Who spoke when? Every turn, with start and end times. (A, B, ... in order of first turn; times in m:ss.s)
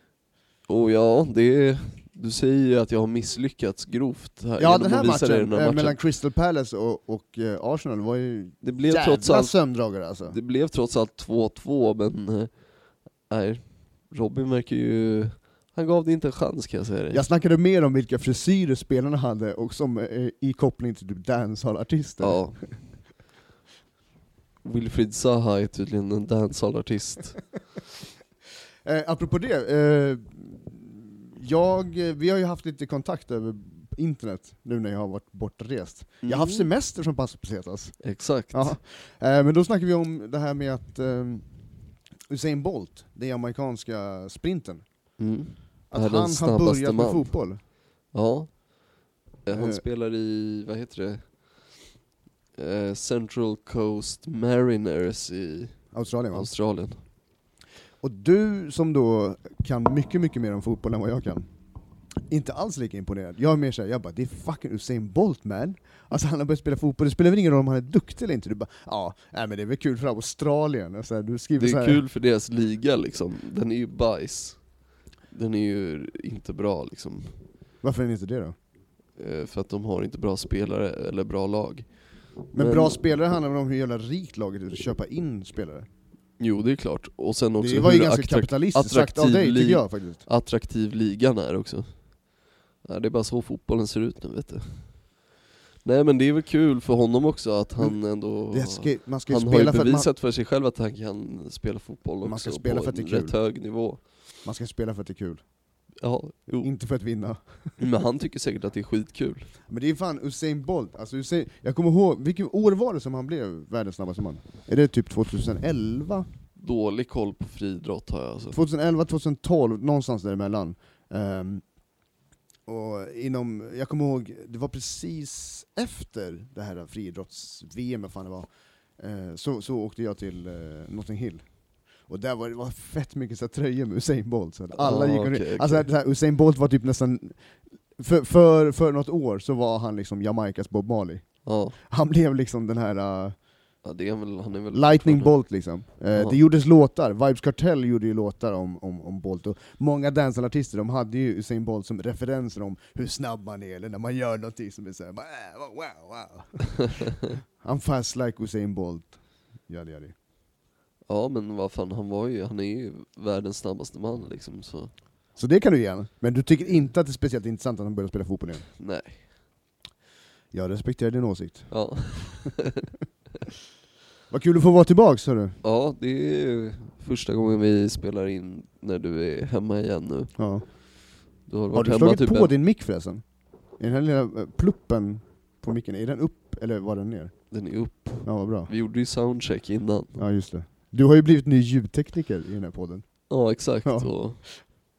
0:00.7-0:06.0 A
0:04.6-0:10.4 B
0:08.6-0:09.6 A
0:10.2-0:17.2 A
0:17.1-0:22.8 B
0:22.2-0:22.6 A
0:24.6-0:27.4 A
0:28.8-0:41.5 B
0:36.2-0:36.7 A
0:38.0-0:38.8 A
0:42.3-0:45.1 B
0:45.2-0:47.4 A
0:45.9-0:47.6 B
0:48.1-0:48.8 A
0:49.4-0:51.8 A
0:49.5-0:49.8 B
0:52.6-0:57.0 A
0:55.9-0:56.5 B
0:58.0-1:01.5 B
1:02.3-1:12.0 B
1:11.6-1:17.4 A
1:17.8-1:18.6 B
1:19.2-1:23.0 A
1:22.5-1:25.9 B
1:26.4-1:32.2 A
1:27.6-1:30.2 B
1:32.8-1:35.2 A
1:35.8-1:44.2 A
1:37.8-1:40.1 B
1:42.2-1:43.4 B
1:44.4-1:45.4 B
1:46.0-1:46.7 A
1:46.6-1:47.7 B
1:47.8-1:49.5 A
1:49.7-1:56.3 B
1:56.6-1:58.6 A
1:58.5-2:01.6 B
2:02.7-2:11.5 B
2:12.0-2:23.4 B
2:14.8-2:15.9 A
2:21.4-2:21.8 A
2:23.8-2:25.4 A
2:24.7-2:36.8 B
2:37.6-2:40.2 B
2:41.1-2:44.9 A
2:45.4-2:48.7 B
2:48.8-2:49.2 A
2:50.5-2:52.5 B
2:51.7-2:52.9 A
2:54.3-2:55.6 B
2:55.6-3:00.3 A
3:00.4-3:00.7 B
3:01.5-3:02.5 A
3:01.7-3:03.2 B
3:03.8-3:07.3 B
3:07.5-3:10.2 A
3:08.2-3:08.7 B
3:10.2-3:14.1 B
3:13.3-3:14.7 A